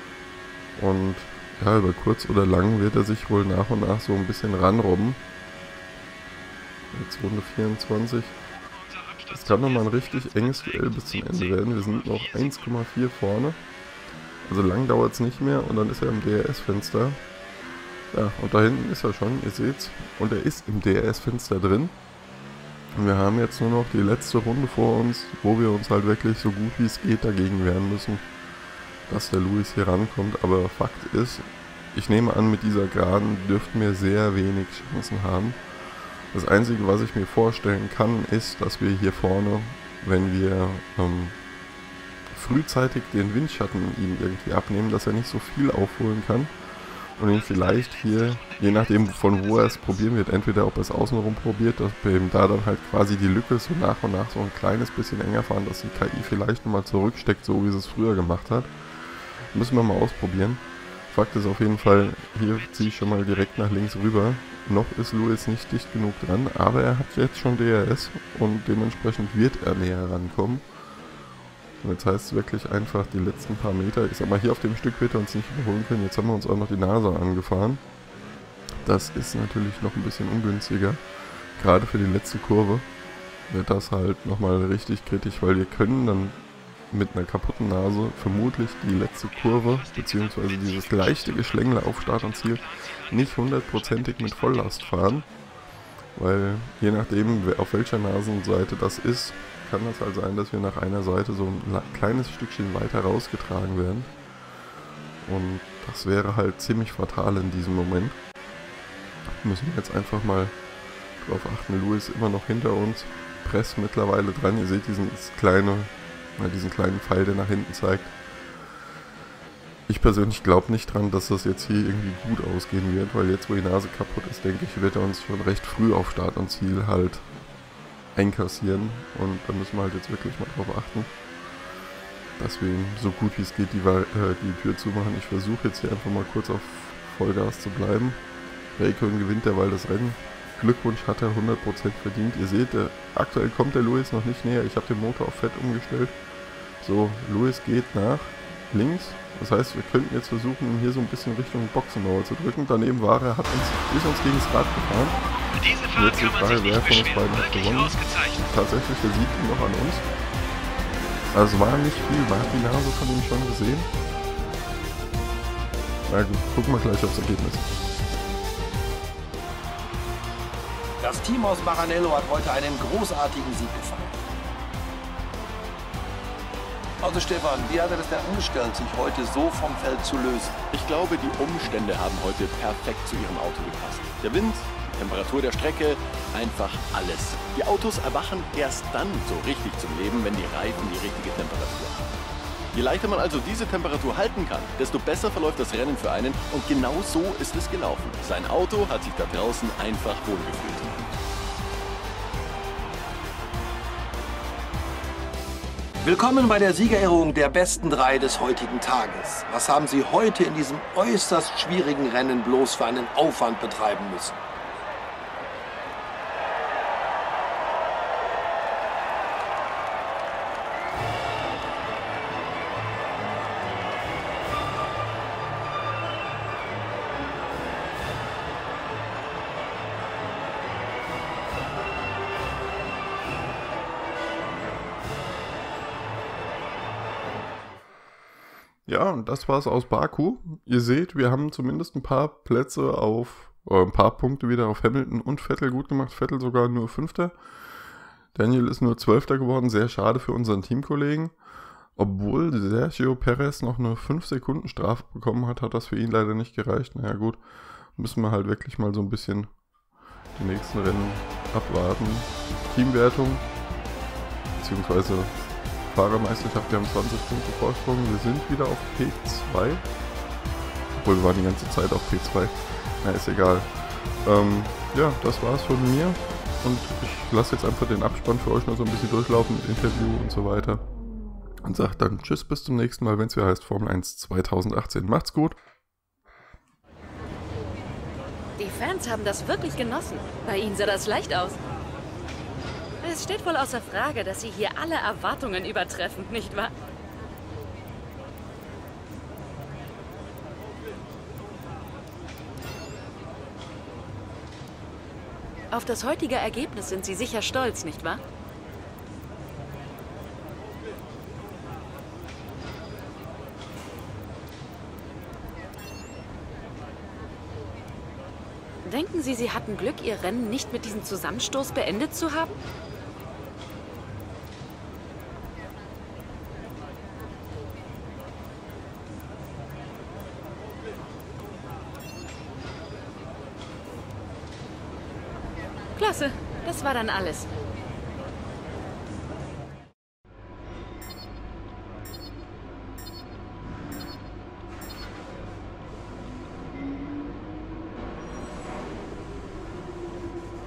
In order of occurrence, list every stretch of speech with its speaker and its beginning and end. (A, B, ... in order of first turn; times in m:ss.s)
0:00.8-0:05.2 A
0:06.9-0:08.4 A
0:08.6-0:12.8 B
0:09.3-0:13.6 A
0:14.4-0:17.2 A
0:18.1-0:22.0 A
0:23.0-0:28.2 A
0:29.1-0:35.6 A
0:36.3-0:41.4 A
0:42.3-0:46.5 A
0:47.2-0:58.7 A
0:47.2-0:50.2 B
0:59.5-1:10.7 A
1:01.8-1:04.2 B
1:11.8-1:17.8 A
1:18.8-1:21.0 A
1:21.6-1:22.9 A
1:23.5-1:35.3 A
1:29.1-1:35.3 B
1:36.2-1:44.1 A
1:45.2-1:48.2 A
1:49.3-1:50.6 A
1:51.2-1:58.2 A
1:59.9-2:07.3 A
2:08.2-2:11.1 A
2:12.4-2:18.2 A
2:18.8-2:26.2 A
2:26.8-2:35.2 A
2:35.6-2:38.5 B
2:35.9-2:40.0 A
2:41.3-2:43.9 A
2:46.1-2:47.7 A
2:51.0-2:54.2 C
2:57.0-3:00.6 C
3:00.7-3:12.1 D
3:12.7-3:21.0 D
3:26.0-3:34.4 C
3:58.9-4:07.4 A
4:08.3-4:11.3 A
4:12.0-4:17.4 A
4:18.0-4:19.5 A
4:20.4-4:23.5 A
4:24.6-4:25.3 A
4:25.8-4:29.9 A
4:31.0-4:33.7 A
4:34.2-4:40.8 A
4:41.6-4:45.6 A
4:48.6-4:51.6 E
4:53.0-4:56.8 E
5:05.7-5:08.2 E
5:18.8-5:22.6 E
5:36.0-5:37.5 E